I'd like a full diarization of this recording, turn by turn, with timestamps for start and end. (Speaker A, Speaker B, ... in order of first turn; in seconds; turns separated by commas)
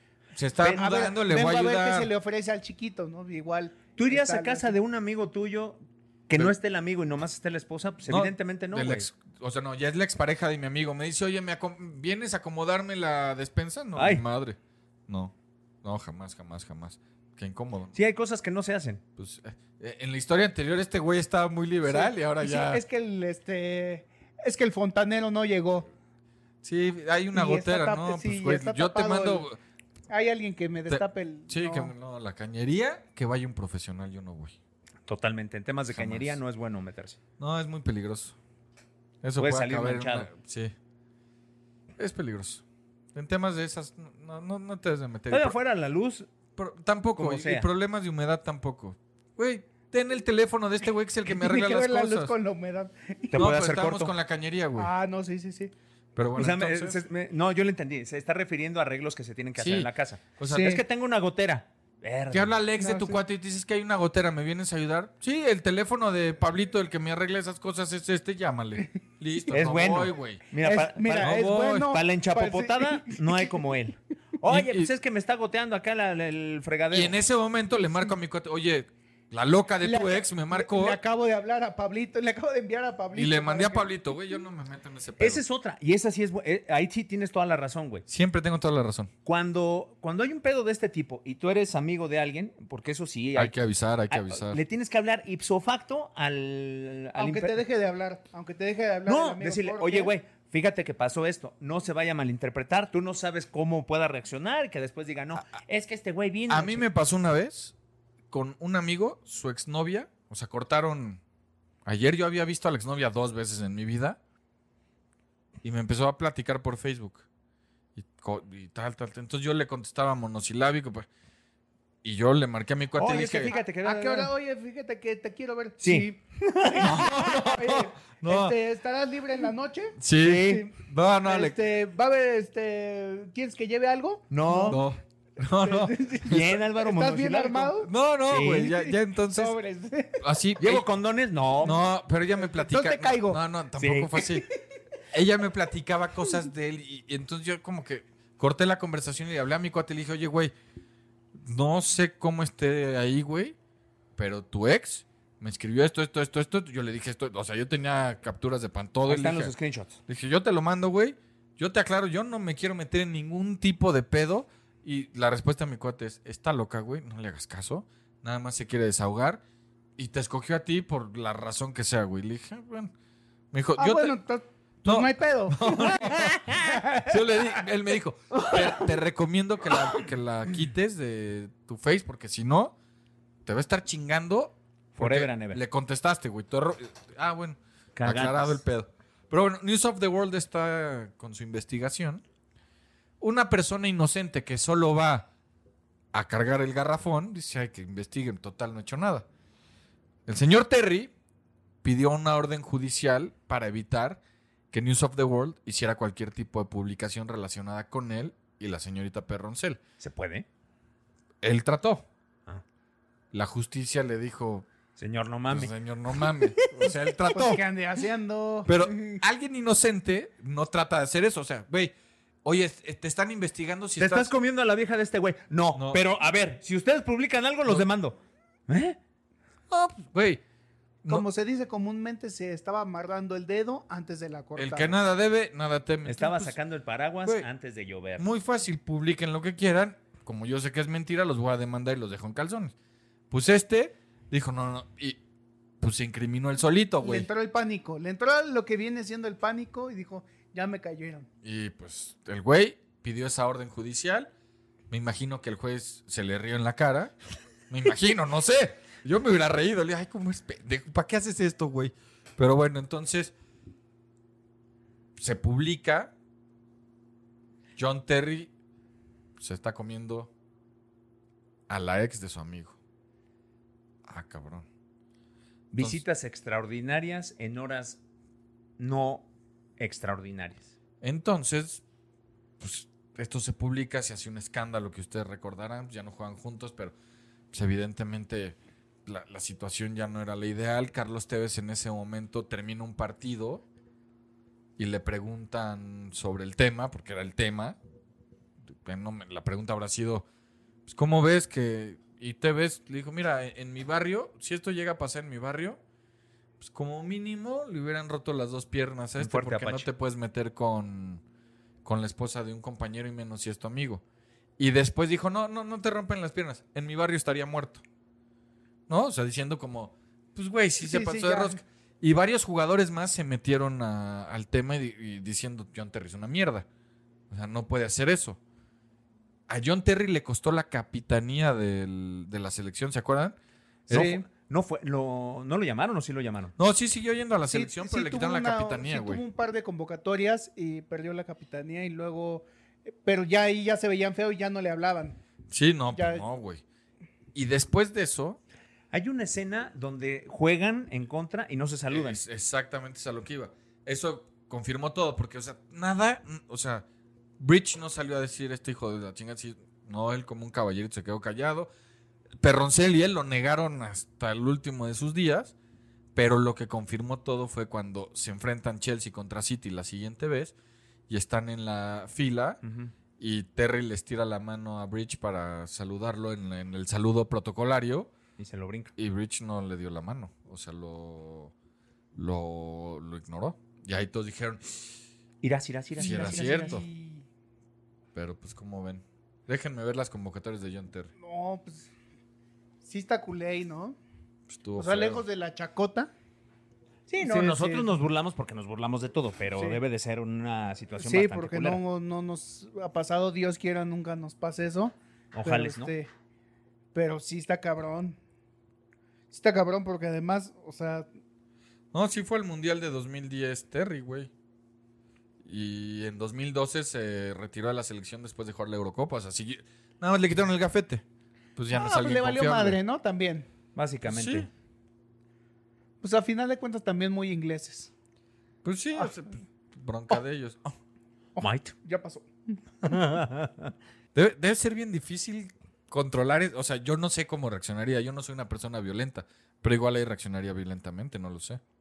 Speaker A: 0.3-2.1, Speaker B: 0.7-4.8, Speaker C: 4.0-9.1, Speaker A: 8.1-14.6, Speaker C: 14.0-14.2, Speaker A: 15.1-18.0, Speaker C: 17.9-19.0, Speaker A: 19.2-22.8, Speaker B: 21.8-25.9, Speaker A: 26.6-29.6, Speaker B: 27.3-29.5, Speaker B: 30.1-31.9, Speaker A: 30.9-34.6, Speaker C: 35.1-37.2, Speaker A: 35.9-36.4, Speaker A: 37.4-38.4, Speaker A: 39.2-40.7, Speaker C: 39.4-40.3, Speaker A: 42.0-42.6, Speaker A: 43.1-45.6, Speaker C: 45.3-46.3, Speaker A: 46.6-52.4, Speaker C: 47.2-47.7, Speaker B: 51.3-53.5, Speaker C: 53.3-54.1, Speaker A: 53.3-54.9, Speaker B: 54.8-55.7, Speaker A: 56.2-57.0, Speaker C: 56.4-62.6, Speaker A: 59.6-60.8, Speaker B: 60.4-60.8, Speaker A: 62.3-70.5, Speaker B: 62.8-63.2, Speaker C: 69.5-77.2, Speaker B: 70.6-73.6, Speaker A: 71.2-71.9, Speaker A: 74.5-74.9, Speaker A: 76.9-81.0, Speaker B: 79.8-83.9, Speaker A: 83.1-85.4, Speaker C: 85.2-88.1, Speaker A: 88.1-89.1, Speaker C: 89.2-93.5, Speaker A: 93.4-94.6, Speaker C: 94.1-97.6, Speaker B: 97.2-100.1, Speaker C: 99.1-106.8, Speaker A: 106.5-107.7, Speaker A: 108.3-111.2, Speaker A: 111.8-114.2, Speaker A: 115.6-117.3, Speaker A: 118.0-121.1, Speaker A: 122.0-123.6, Speaker C: 123.0-124.3, Speaker B: 123.7-134.8, Speaker C: 125.8-127.0, Speaker A: 126.8-128.6, Speaker A: 130.0-131.6, Speaker C: 130.2-130.7, Speaker C: 134.3-134.8, Speaker A: 134.7-136.6, Speaker B: 135.4-137.9, Speaker C: 136.3-137.8, Speaker A: 137.8-139.6, Speaker C: 138.3-138.7, Speaker B: 138.8-140.2, Speaker A: 140.2-140.9, Speaker C: 140.6-141.8, Speaker A: 141.6-144.5, Speaker B: 142.4-143.4, Speaker C: 143.8-144.1, Speaker A: 145.1-150.5, Speaker A: 151.4-153.6, Speaker A: 154.2-159.5, Speaker C: 159.1-160.0, Speaker A: 160.1-169.4, Speaker A: 170.0-172.9, Speaker A: 173.5-174.2, Speaker B: 173.8-177.6, Speaker A: 174.8-182.7, Speaker A: 183.5-192.2, Speaker C: 185.0-185.6, Speaker C: 188.0-188.6, Speaker A: 193.2-195.3, Speaker A: 196.1-199.3, Speaker A: 200.3-201.1, Speaker A: 201.8-204.2, Speaker A: 204.7-209.8, Speaker C: 210.0-210.5, Speaker A: 211.4-212.1, Speaker A: 213.3-214.7, Speaker C: 215.0-216.9, Speaker A: 215.5-217.6, Speaker B: 216.8-219.2, Speaker A: 218.7-221.9, Speaker A: 222.4-224.3, Speaker C: 224.0-229.0, Speaker A: 225.7-226.0, Speaker A: 229.7-230.4, Speaker B: 231.1-235.0, Speaker A: 234.6-236.6, Speaker C: 236.1-238.2, Speaker A: 238.2-242.7, Speaker A: 243.3-245.2, Speaker A: 245.8-247.3, Speaker B: 247.0-251.3, Speaker A: 251.4-254.3, Speaker A: 254.9-257.1, Speaker A: 257.7-263.3, Speaker A: 265.2-266.1, Speaker A: 267.8-268.5, Speaker A: 269.4-270.3, Speaker A: 271.7-272.8, Speaker A: 274.1-274.7, Speaker C: 275.7-278.0, Speaker C: 278.8-280.7, Speaker A: 281.0-281.8, Speaker A: 282.6-286.9, Speaker A: 287.5-293.6, Speaker A: 294.8-297.8, Speaker A: 298.8-300.2, Speaker A: 300.9-305.8, Speaker A: 306.6-311.2, Speaker C: 309.2-309.9, Speaker A: 311.9-314.0, Speaker A: 314.6-317.8, Speaker A: 318.9-326.7, Speaker B: 320.8-321.6, Speaker A: 327.3-328.4, Speaker A: 329.5-333.4, Speaker C: 333.9-336.6, Speaker B: 333.9-334.3, Speaker A: 336.6-339.2, Speaker B: 337.5-345.2, Speaker A: 345.5-346.6, Speaker B: 345.9-346.2, Speaker A: 347.4-348.4, Speaker C: 348.9-352.2, Speaker A: 351.9-356.9, Speaker A: 357.4-361.7, Speaker A: 362.4-365.5, Speaker A: 366.1-370.5, Speaker A: 371.1-372.6, Speaker C: 372.6-372.9, Speaker A: 373.2-378.1, Speaker C: 378.4-378.9, Speaker A: 379.0-381.5, Speaker A: 382.2-385.0, Speaker C: 385.4-386.8, Speaker B: 385.9-387.3, Speaker A: 386.0-386.9, Speaker A: 388.1-391.1, Speaker B: 391.2-391.9, Speaker B: 392.8-394.0, Speaker A: 394.5-395.2, Speaker B: 394.8-396.1, Speaker C: 397.1-401.8, Speaker B: 397.2-397.9, Speaker B: 399.5-399.8, Speaker B: 401.0-406.1, Speaker C: 405.3-405.9, Speaker B: 406.9-408.2, Speaker B: 409.3-411.1, Speaker A: 411.9-414.3, Speaker A: 415.4-421.0, Speaker A: 421.6-422.8, Speaker B: 421.7-423.5, Speaker C: 423.8-424.5, Speaker A: 424.1-424.5, Speaker B: 426.0-427.9, Speaker A: 428.6-430.8, Speaker B: 431.4-433.0, Speaker C: 431.4-431.7, Speaker C: 432.9-433.7, Speaker A: 434.1-441.6